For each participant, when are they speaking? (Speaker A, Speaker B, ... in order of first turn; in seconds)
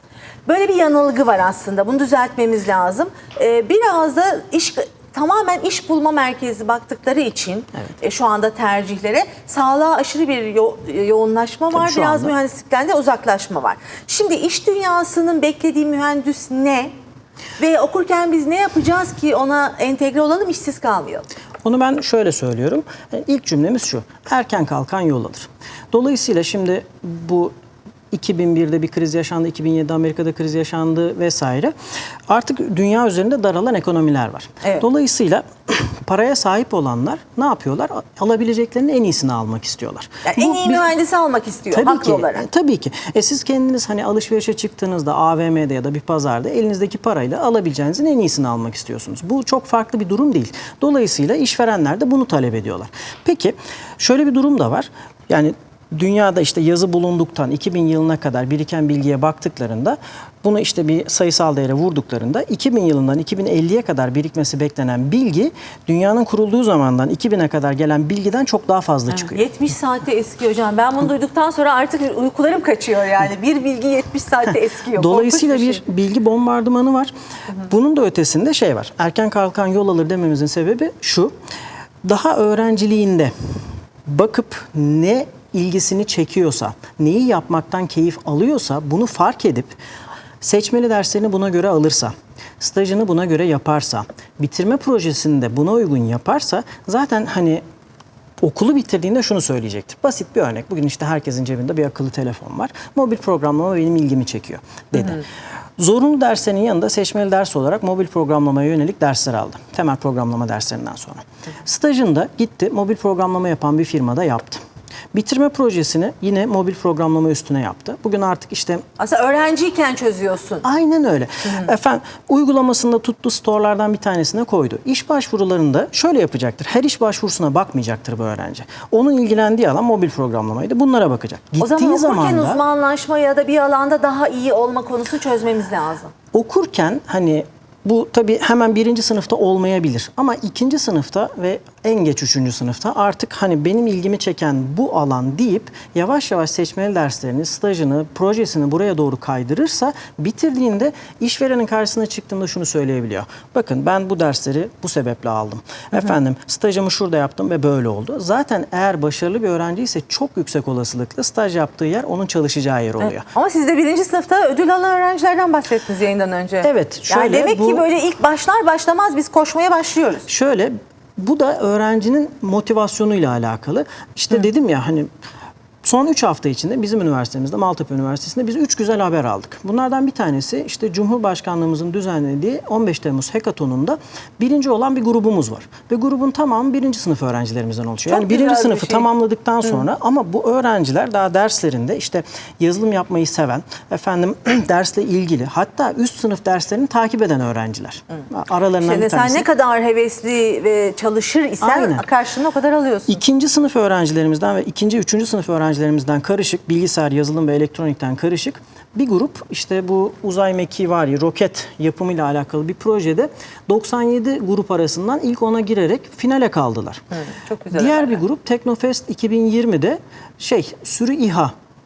Speaker A: 0.5-16.9, 17.6-21.3, 40.2-42.5, 69.1-75.8, 119.0-120.6, 131.6-136.1, 163.0-170.2, 188.1-189.1, 198.8-203.2, 217.1-218.2
Speaker B: 11.7-12.3, 21.6-27.5, 28.1-31.7, 32.3-40.9, 41.7-69.4, 74.9-81.3, 82.0-83.3, 84.0-89.8, 90.4-97.6, 98.4-105.2, 105.8-114.6, 115.1-118.8, 120.6-132.6, 136.3-163.3, 166.6-167.8, 170.3-175.1, 175.8-199.4, 201.6-202.1, 203.1-217.0, 217.7-221.5